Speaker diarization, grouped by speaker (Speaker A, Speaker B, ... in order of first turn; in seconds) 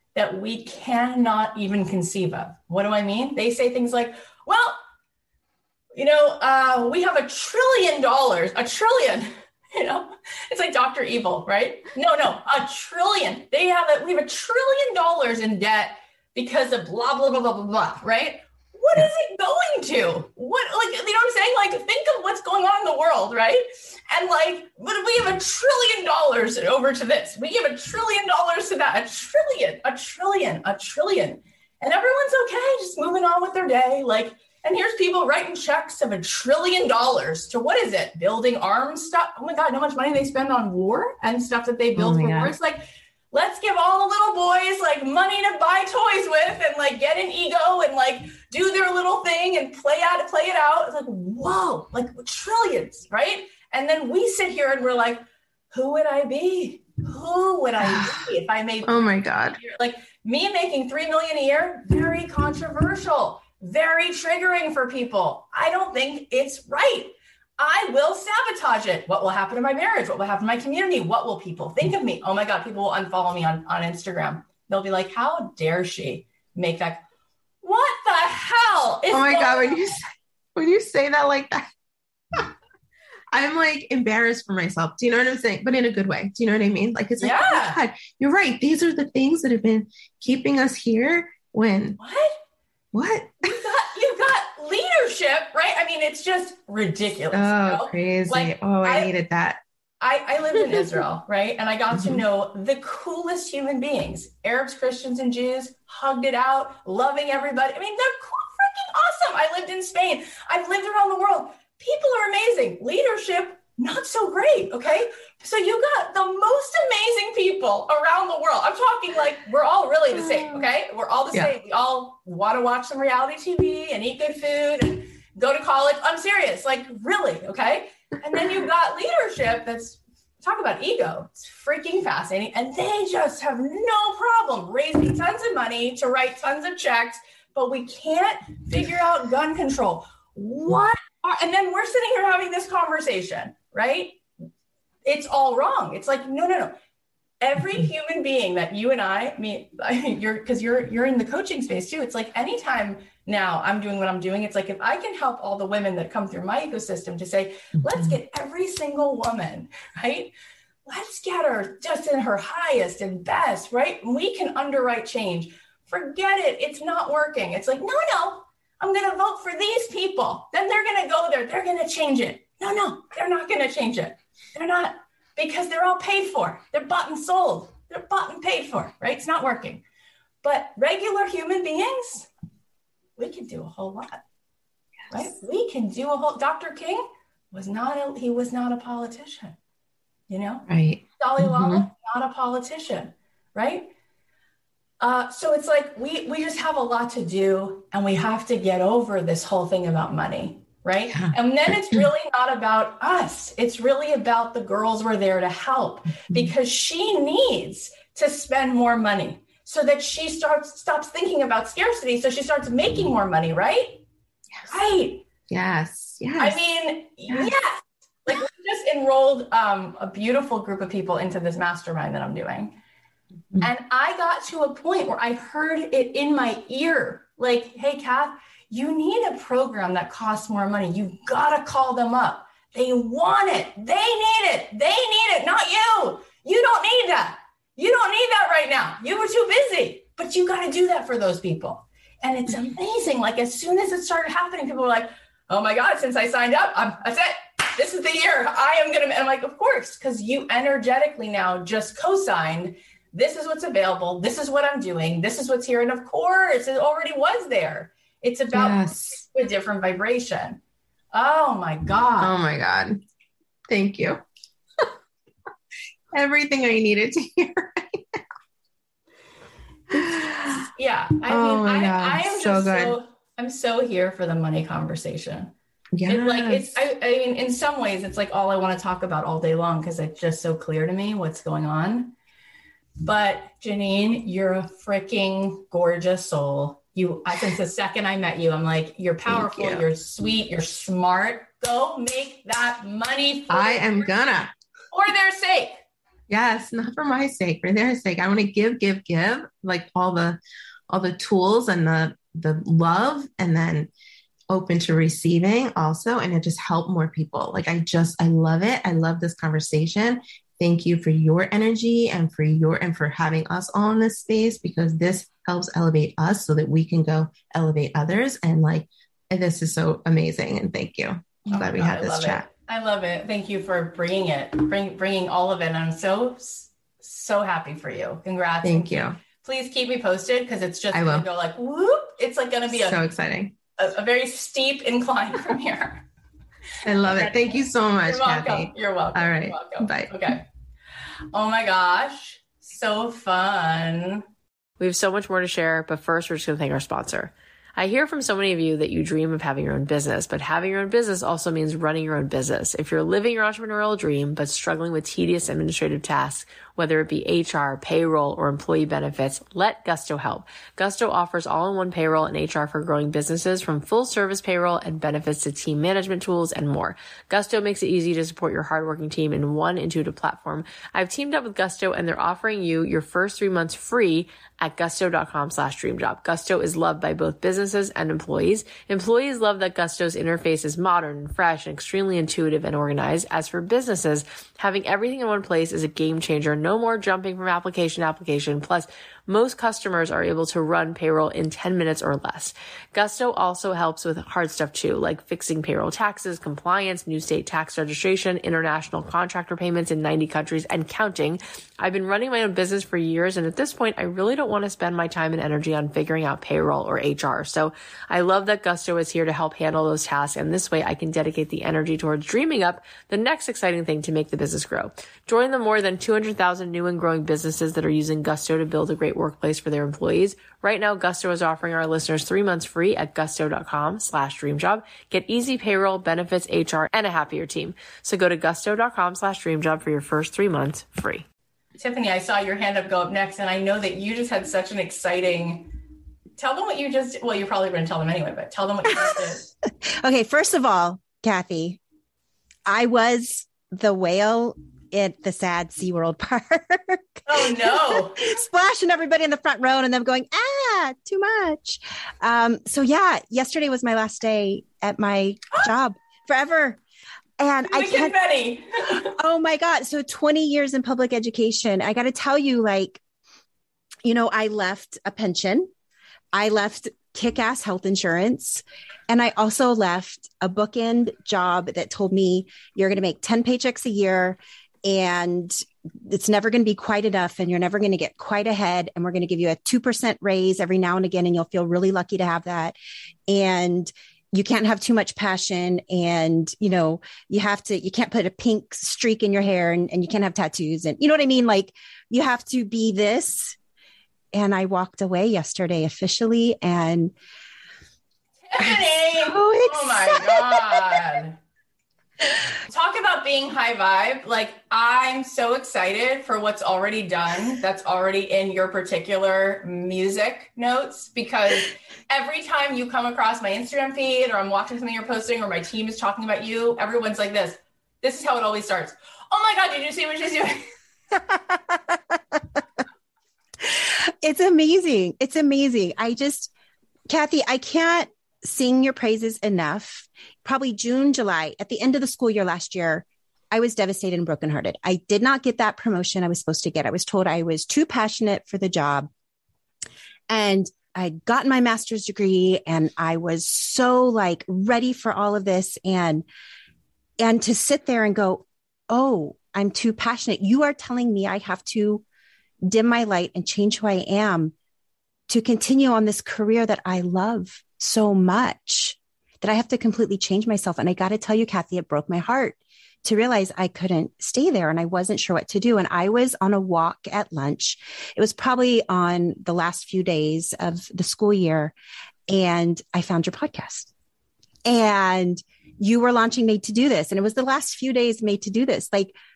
Speaker A: 0.1-4.8, 6.0-42.8, 43.3-77.0, 77.6-79.9, 87.2-87.8, 92.0-92.4, 93.4-99.1, 100.0-144.2, 145.1-146.7, 147.4-160.3, 160.9-179.8, 180.4-182.3, 183.2-184.2, 185.1-189.6, 190.3-190.7, 191.2-193.9, 195.0-214.0, 214.7-215.2, 216.4-222.8, 223.6-260.6, 261.1-262.3, 270.5-275.5, 276.1-282.1, 283.0-294.1, 294.9-295.8, 321.5-333.0, 333.8-336.1, 337.1-340.4, 341.3-344.2, 431.8-435.7, 436.4-439.5, 447.3-448.4, 457.7-459.1, 498.5-501.4, 502.7-520.6
Speaker B: 42.0-42.6, 57.8-58.2, 58.8-59.6, 79.1-80.0, 80.5-81.7, 83.3-92.0, 92.9-93.4, 97.3-99.6, 101.9-102.2, 157.9-158.2, 190.7-191.9, 201.1-201.4, 215.5-216.6, 258.5-259.2, 262.2-263.0, 263.7-264.2, 266.1-268.2, 269.9-270.6, 271.3-273.0, 276.0-276.8, 289.3-289.9, 293.5-294.5, 296.3-303.9, 304.5-322.5, 328.6-329.2, 330.9-331.3, 332.7-333.6, 336.8-340.1, 499.7-500.2
Speaker C: 344.8-431.3
Speaker D: 439.9-441.8, 442.7-456.8, 457.4-458.1, 459.2-463.0, 464.0-465.7, 466.3-482.8, 483.3-493.6, 494.3-497.1, 521.1-522.4, 523.6-526.5, 527.1-539.1, 540.3-546.2, 547.2-552.0, 552.6-554.5, 555.3-571.7, 572.3-573.9, 574.7-579.1